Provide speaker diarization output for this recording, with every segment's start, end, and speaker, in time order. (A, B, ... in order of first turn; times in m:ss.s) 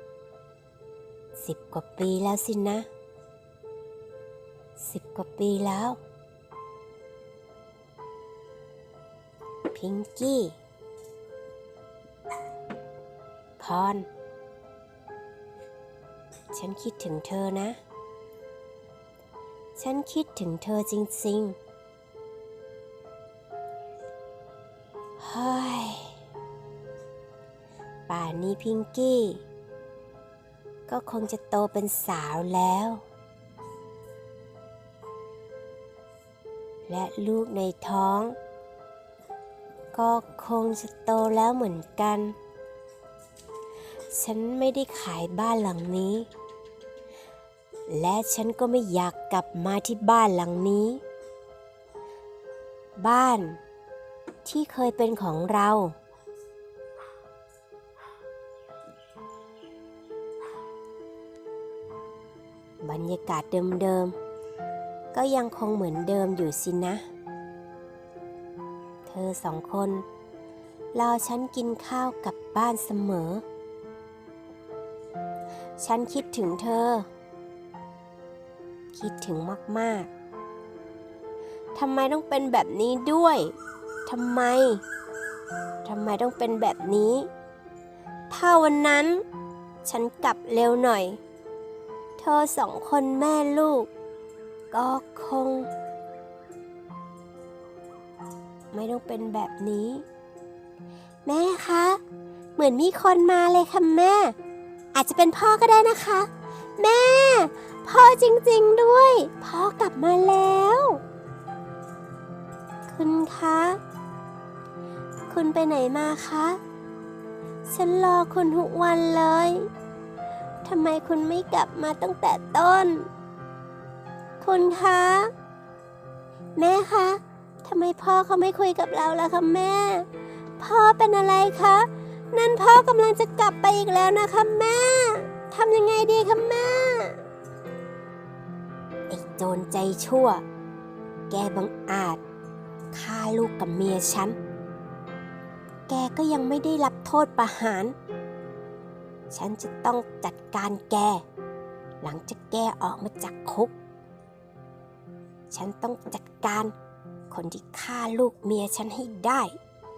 0:01.4-0:02.9 A
0:04.8-0:06.0 A
0:09.7-0:10.6 A
0:13.6-0:14.1 A
0:16.5-0:17.8 A
0:19.8-0:21.6 A
0:25.2-0:26.1 A
0:28.1-0:29.4 A
0:30.9-0:33.0 A
0:36.9-0:38.4 A
0:39.9-0:42.4 A
0:44.1-0:46.3 A
0:47.9-0:51.0 A
0:53.0-0:53.6 A
0:54.4-0:55.9 A
1:02.8-1:04.2 A
1:05.1-1:07.0 A
1:09.1-1:10.0 A
1:10.9-1:13.4 A
1:15.8-1:17.1 A
1:18.9-1:20.1 A
1:21.8-1:23.5 A
1:24.1-1:24.8 A
1:25.8-1:27.3 A
1:28.3-1:29.2 A
1:29.8-1:31.2 A
1:32.2-1:33.9 A
1:34.7-1:35.7 A
1:38.7-1:40.0 A
1:41.3-1:42.0 A
1:42.6-1:44.4 A
1:44.9-1:51.0 A
1:52.9-1:53.8 A
1:55.3-1:56.6 A
1:57.7-1:59.7 A
2:00.6-2:03.1 A
2:04.4-2:05.3 A
2:06.6-2:10.1 A
2:10.6-2:17.2 A
2:19.1-2:20.4 A
2:21.3-2:22.2 A
2:22.9-2:24.4 A
2:25.9-2:28.0 A
2:29.3-2:31.2 A
2:32.0-2:33.7 A
2:35.5-2:36.7 A
2:37.3-2:39.6 A